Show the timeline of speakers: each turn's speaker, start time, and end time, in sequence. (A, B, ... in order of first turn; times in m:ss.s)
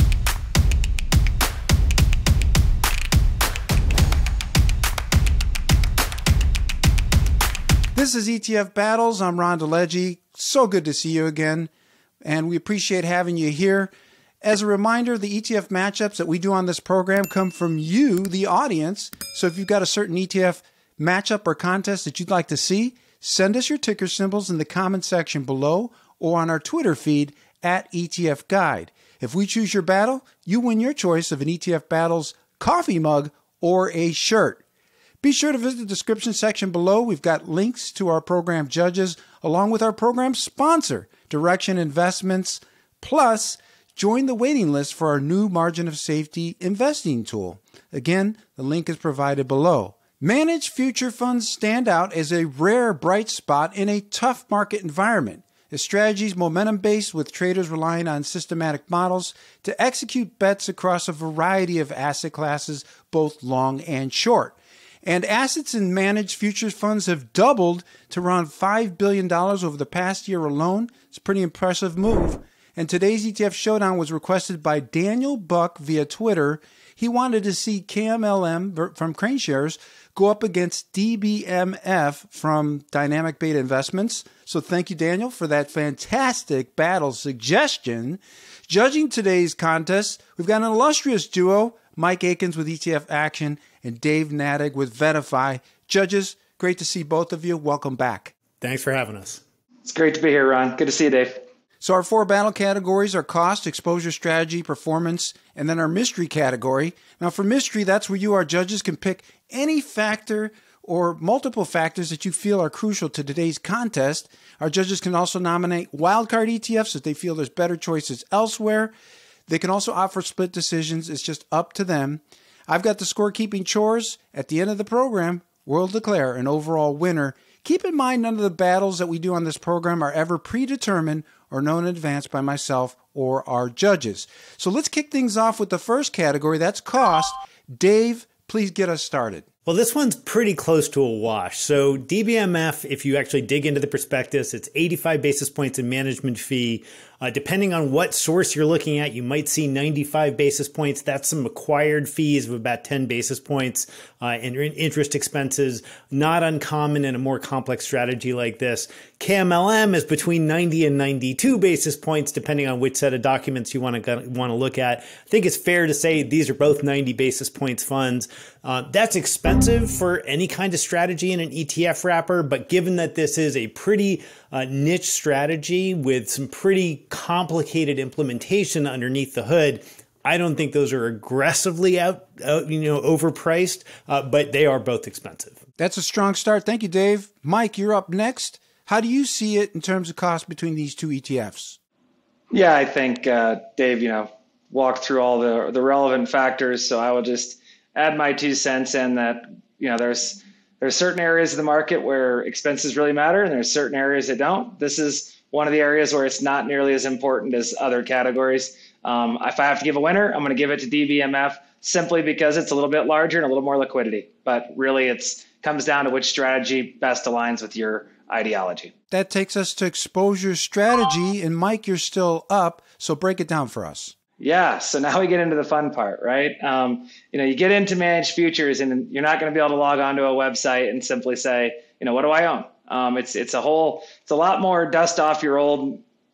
0:07.9-0:11.7 A
0:12.2-0:34.6 A
0:35.2-1:38.4 A
1:38.6-1:39.4 B
1:39.8-1:41.4 C
1:41.8-1:59.0 A
1:59.5-2:19.4 A
2:19.7-3:05.6 B
3:05.8-3:11.8 A
3:12.5-3:38.9 C
3:39.1-3:44.2 A
3:44.4-3:56.0 C